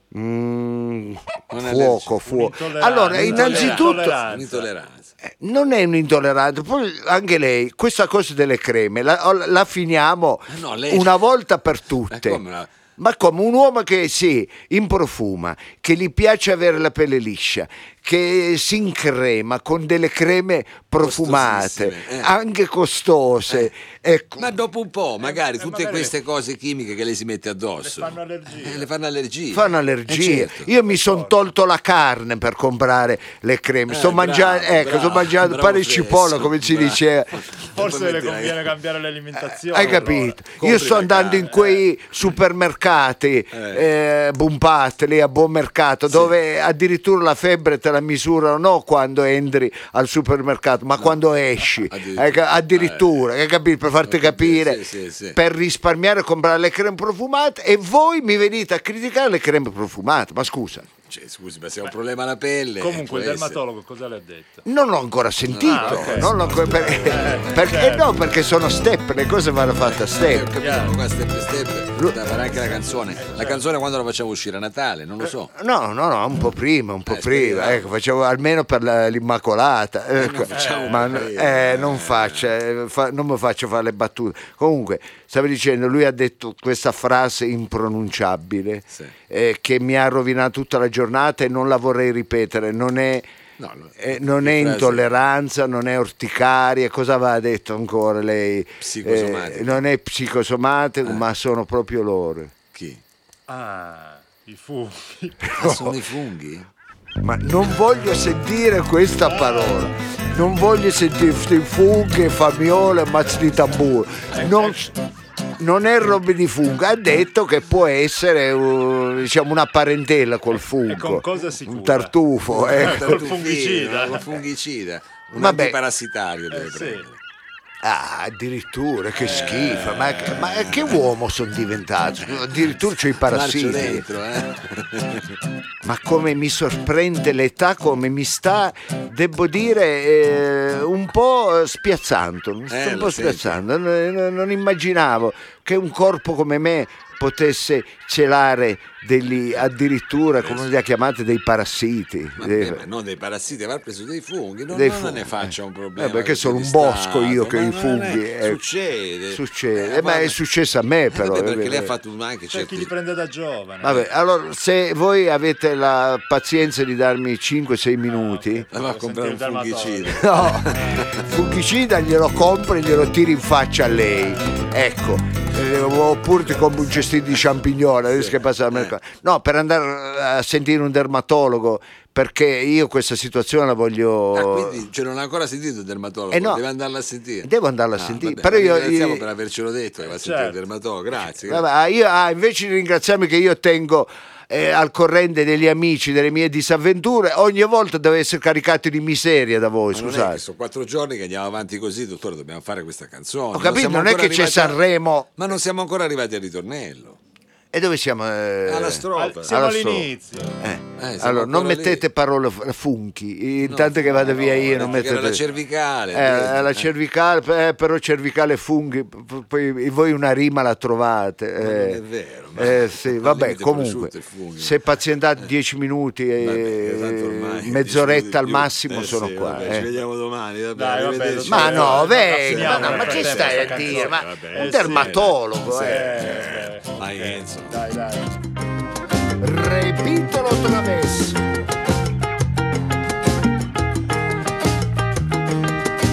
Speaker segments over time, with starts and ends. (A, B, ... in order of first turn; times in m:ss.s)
0:00.1-0:04.2 A
0:01.5-0:02.3 B
0:02.3-0:04.7 C
0:03.1-0:05.1 B
0:05.2-0:12.4 A
0:10.5-0:11.2 B
0:12.1-0:12.7 B
0:13.0-0:24.6 A
0:21.0-0:22.3 B
0:24.4-0:30.7 B
0:25.2-0:26.2 C
0:27.8-0:28.9 C
0:29.5-0:37.4 A
0:30.8-0:31.5 C
0:33.9-0:38.7 B
0:37.6-0:40.4 C
0:39.4-1:00.9 A
0:39.8-0:41.8 B
0:43.5-0:43.9 B
0:46.1-0:46.3 B
0:51.8-0:53.2 B
0:54.0-0:55.4 B
1:01.0-1:03.6 B
1:02.8-1:04.6 C
1:04.6-1:10.5 A
1:05.4-1:07.8 B
1:05.6-1:08.6 C
1:09.8-1:15.5 B
1:10.6-1:11.0 C
1:12.0-1:12.2 A
1:12.7-1:13.6 C
1:15.2-1:33.3 A
1:17.1-1:18.0 B
1:20.2-1:22.5 B
1:20.5-1:21.2 C
1:33.6-1:35.1 B
1:34.0-1:42.5 A
1:38.8-1:39.8 B
1:42.7-1:43.0 B
1:43.5-1:45.8 C
1:45.4-1:46.0 A
1:45.6-1:46.7 B
1:47.2-1:54.9 A
1:49.2-1:49.9 C
1:54.3-1:55.0 C
1:55.6-2:03.3 A
2:00.5-2:04.4 C
2:02.5-2:07.2 B
2:05.4-2:05.8 A
2:06.5-2:07.1 C
2:07.8-2:14.1 A
2:09.2-2:11.1 B
2:12.3-2:15.4 B
2:15.8-2:32.9 A
2:22.7-2:23.6 B
2:30.4-2:30.8 B
2:32.4-2:40.4 B
2:34.7-2:38.6 A
2:39.3-2:41.9 A
2:41.1-2:42.9 B
2:42.5-2:44.0 C
2:43.8-2:48.7 A
2:48.1-2:51.1 C
2:48.7-2:51.3 B
2:50.1-3:04.9 A
2:54.0-2:54.8 C
2:56.6-2:57.1 C
2:58.1-2:58.9 B
3:04.3-3:11.7 B
3:06.3-3:06.6 A
3:07.4-3:09.3 A
3:10.1-3:10.6 C
3:11.4-3:20.4 A
3:19.9-3:24.8 B
3:23.5-3:25.3 A
3:25.4-3:27.2 B
3:27.7-3:35.4 A
3:28.6-3:29.5 B
3:29.1-3:30.6 C
3:31.0-3:32.1 B
3:33.6-3:36.9 B
3:36.1-3:42.0 A
3:41.6-3:45.5 B
3:42.6-3:49.9 A
3:46.4-3:57.8 B
3:50.7-3:58.4 C
3:51.4-3:56.3 A
3:59.4-4:01.4 A